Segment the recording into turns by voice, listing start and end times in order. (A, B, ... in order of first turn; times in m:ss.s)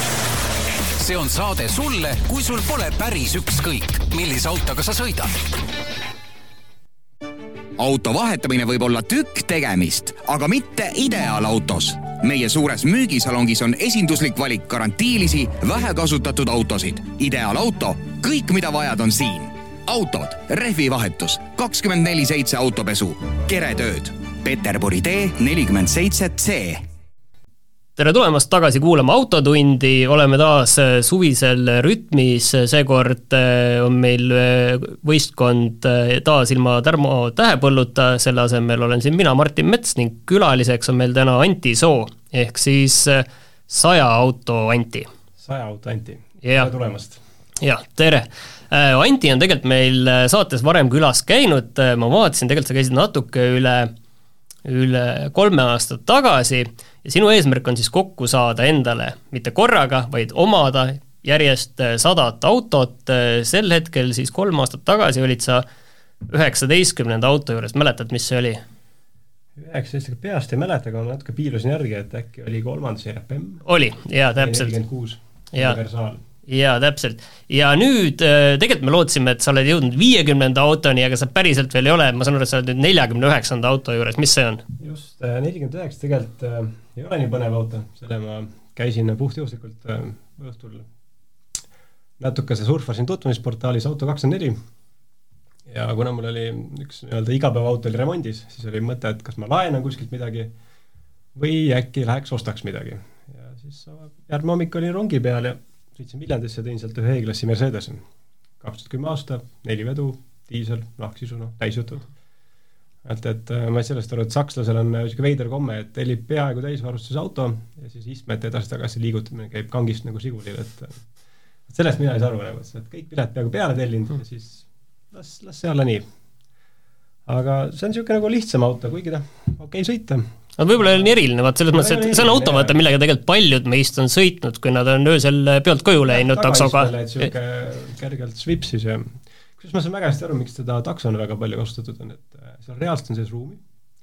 0:01.0-0:05.3 A
0:07.8-0:26.8 B
0:28.0-0:45.1 C
0:45.4-0:47.2 D
0:46.4-0:46.7 C
0:47.6-0:53.9 C
0:54.6-1:05.6 C
1:06.2-1:08.6 C
1:09.6-1:13.6 D
1:13.6-1:14.8 C
1:14.4-1:16.2 D
1:16.5-1:24.6 C
1:24.8-1:30.9 D
1:32.2-1:34.6 D
1:35.7-1:40.5 D
1:41.4-1:48.0 D
1:48.6-1:52.1 D
1:53.0-2:01.0 D
2:01.7-2:06.1 D
2:07.3-2:10.3 D
2:10.6-2:16.9 C
2:10.8-2:11.1 D
2:11.7-2:12.8 D
2:16.1-2:23.6 D